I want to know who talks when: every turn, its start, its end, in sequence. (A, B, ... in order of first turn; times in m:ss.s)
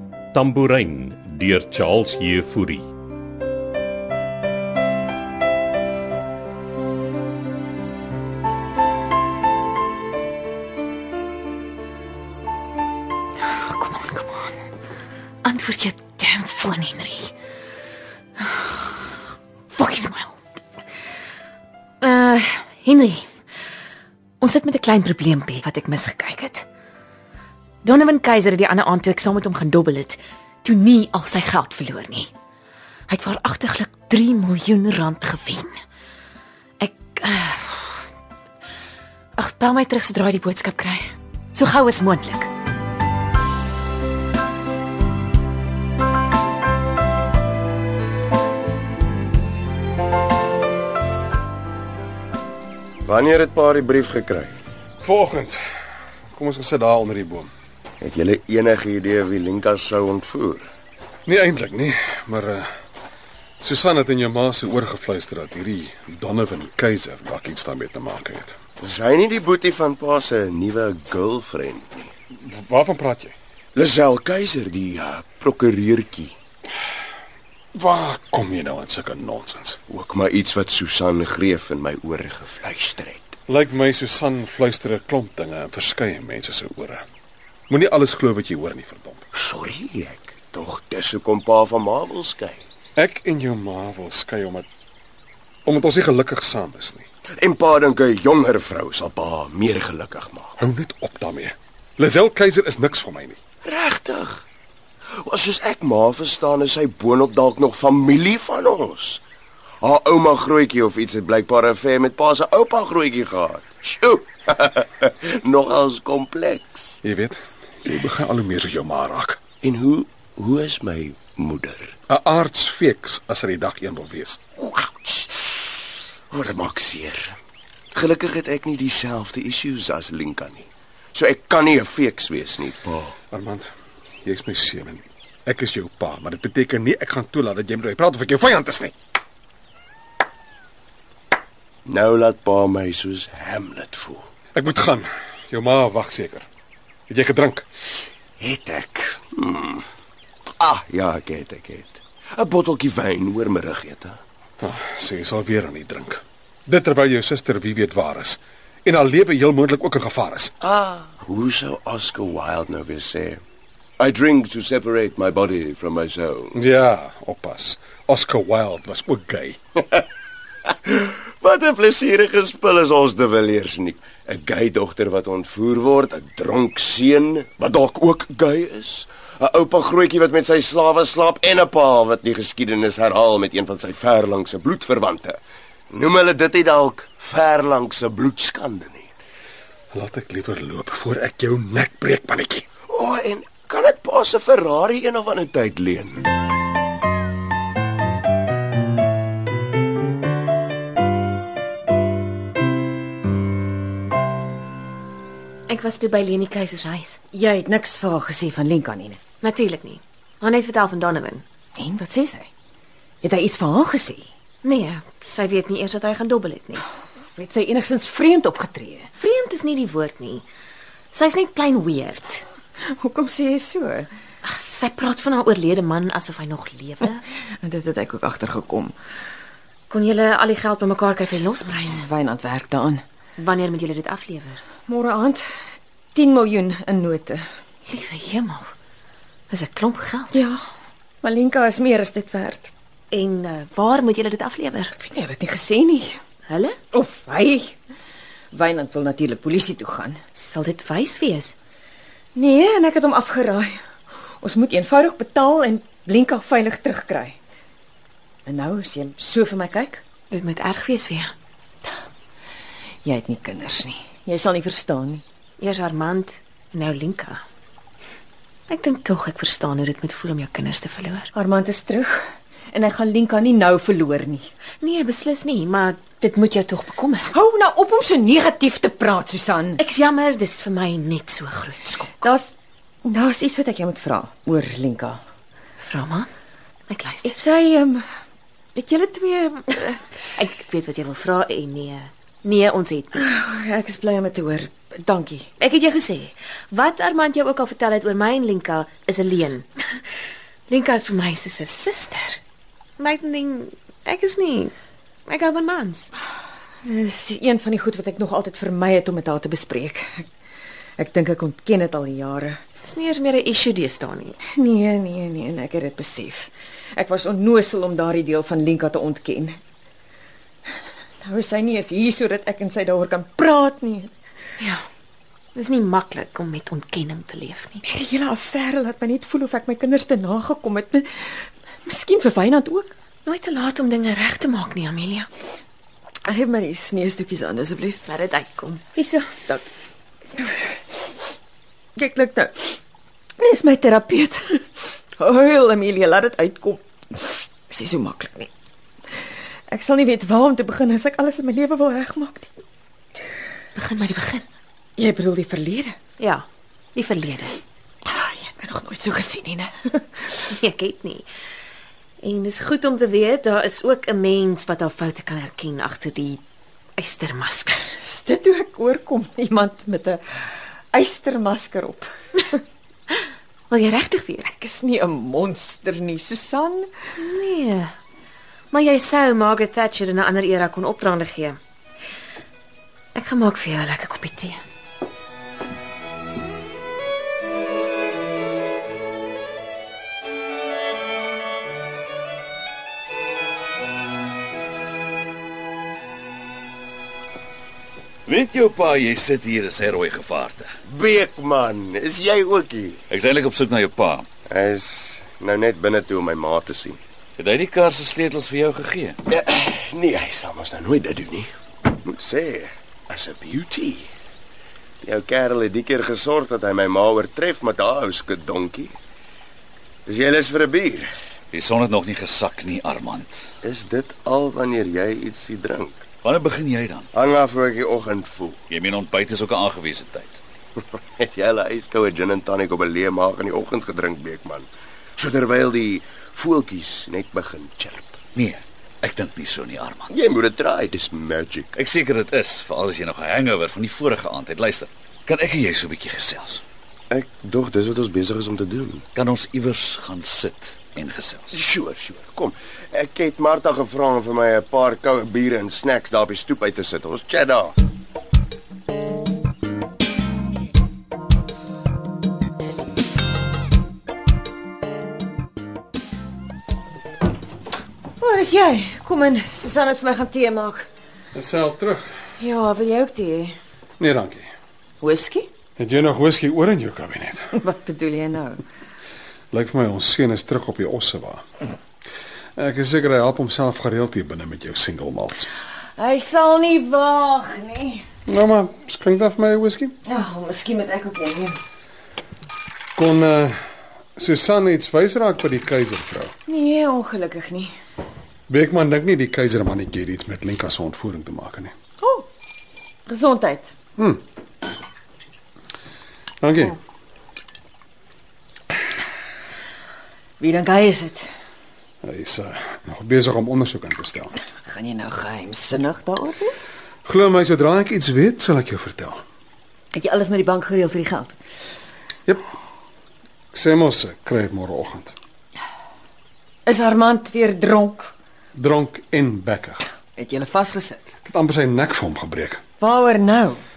0:00.3-0:02.9 A
0:13.4-0:14.6 B
0:15.4-0:17.3 B
0:18.4-0:18.7 B
0:19.7-0:20.4 B
0:22.0-0:23.3 B
0:24.4-0:26.7 B
0:27.8-0:32.3 B
0:33.1-0:35.7 B
0:36.8-0:38.0 B
0:39.4-0:42.5 B
0:53.0-0:54.6 C
0:55.0-0:55.6 D
0:56.3-0:57.5 D
0:58.0-1:00.7 C
1:01.3-1:02.7 D
1:03.6-1:08.6 D
1:08.8-1:12.1 C
1:12.4-1:13.3 D
1:13.8-1:16.4 C
1:17.7-1:19.8 D
1:19.9-1:23.3 C
1:23.5-1:27.0 D
1:27.7-1:29.3 D
1:29.4-1:32.6 C
1:33.0-1:34.7 D
1:35.6-1:37.1 D
1:37.4-1:40.5 C
1:40.6-1:43.4 D
1:43.6-1:44.4 C
1:45.2-1:49.2 C
1:49.8-1:57.0 C
1:57.0-1:59.4 D
1:59.6-2:01.9 C
2:02.1-2:04.4 D
2:04.6-2:05.5 C
2:06.3-2:07.4 C
2:07.9-2:13.2 C
2:13.3-2:13.7 D
2:14.2-2:18.9 D
2:21.9-2:24.2 C
2:24.6-2:26.5 D
2:27.1-2:27.7 D
2:28.4-2:29.8 C
2:30.6-2:34.2 C
2:34.6-2:40.5 D
2:40.6-2:43.4 C
2:44.0-2:46.6 C
2:46.5-2:49.6 D
2:50.7-3:05.4 C
3:05.9-3:09.1 C
3:09.9-3:12.6 D
3:12.9-3:16.2 C
3:25.7-3:27.2 B
3:27.3-3:29.2 E
3:29.4-3:31.4 B
3:31.8-3:32.5 E
3:33.2-3:34.3 E
3:34.6-3:36.8 B
3:37.4-3:39.1 E
3:39.2-3:40.5 B
3:41.1-3:42.4 B
3:42.9-3:44.1 E
3:44.4-3:47.2 B
3:47.6-3:48.9 E
3:49.9-3:52.0 B
3:51.8-3:53.0 E
3:53.4-3:54.6 B
3:54.9-3:55.4 E
3:56.1-3:57.4 E
3:57.9-3:58.7 B
3:59.5-4:00.4 B
4:00.3-4:00.6 E
4:01.2-4:02.7 E
4:03.1-4:04.9 B
4:05.0-4:06.2 E
4:06.5-4:06.8 B
4:06.9-4:07.8 E
4:08.5-4:10.2 E
4:10.4-4:11.6 B
4:12.4-4:13.8 E
4:14.4-4:17.4 E
4:18.5-4:20.0 E
4:20.3-4:21.3 B
4:23.0-4:25.2 E
4:25.6-4:27.4 B
4:28.7-4:31.3 B
4:31.3-4:32.2 E
4:32.7-4:34.5 E
4:34.8-4:37.3 B
4:37.3-4:39.8 E
4:39.8-4:42.3 B
4:42.2-4:42.5 E
4:43.0-4:45.2 E
4:45.8-4:46.3 B
4:46.9-4:47.4 B
4:47.2-4:48.0 E
4:48.8-4:50.1 E
4:50.4-4:53.2 B
4:53.2-4:55.5 E
4:55.6-5:00.0 B
5:00.7-5:02.4 B
5:03.0-5:04.7 B
5:05.3-5:06.1 B
5:06.8-5:10.3 E
5:11.0-5:12.6 E
5:12.8-5:14.4 B
5:14.5-5:19.6 E
5:21.2-5:24.1 E
5:25.6-5:27.8 B
5:27.8-5:32.9 E
5:33.2-5:35.3 B
5:36.3-5:38.0 E
5:38.0-5:39.3 B
5:39.2-5:39.6 E
5:40.4-5:40.8 E
5:42.0-5:42.8 E
5:43.4-5:48.5 E
5:49.7-5:52.5 E
5:53.8-5:54.4 B
5:55.0-5:56.0 E
5:56.2-5:56.4 B
5:57.0-5:57.6 B
5:58.0-6:00.4 E
6:00.6-6:01.3 B
6:02.2-6:06.4 B
6:07.0-6:07.8 B
6:08.0-6:12.1 E
6:13.7-6:14.4 B
6:14.4-6:16.9 E
6:17.2-6:17.9 B
6:18.7-6:21.6 B
6:23.2-6:24.6 B
6:38.3-6:40.7 F
6:40.9-6:43.0 C
6:43.1-6:44.3 F
6:44.5-6:47.0 C
6:47.4-6:49.2 F
6:49.3-6:54.1 C
6:55.0-6:59.0 C
7:00.1-7:01.1 C
7:01.5-7:03.4 F
7:03.6-7:06.0 C
7:06.2-7:07.1 F
7:07.1-7:08.6 C
7:08.7-7:10.4 F
7:11.2-7:18.2 C
7:18.4-7:20.1 F
7:20.1-7:21.7 C
7:21.7-7:26.6 F
7:27.1-7:29.0 C
7:29.2-7:31.6 F
7:31.5-7:37.8 C
7:48.2-7:50.9 E
7:51.3-7:52.0 D
7:52.4-7:53.6 E
7:54.0-7:54.5 D
7:55.0-7:55.5 E
7:55.8-7:57.4 D
7:57.5-7:58.6 E
7:59.5-8:01.4 D
8:02.6-8:05.5 D
8:06.0-8:08.0 E
8:08.3-8:10.0 D
8:10.0-8:11.6 E
8:13.0-8:13.6 D
8:14.2-8:16.3 D
8:16.5-8:17.7 E
8:18.5-8:21.7 D
8:22.0-8:22.3 E
8:23.1-8:23.7 E
8:24.0-8:24.2 D
8:26.4-8:26.8 D
8:30.4-8:31.2 E
8:32.0-8:34.3 D
8:34.6-8:36.6 E
8:37.1-8:39.2 D
8:39.9-8:41.4 E
8:43.5-8:45.2 D
8:46.7-8:48.1 E
8:48.6-8:49.8 D
8:50.2-8:51.0 E
8:51.2-8:52.6 D
8:52.8-8:53.6 E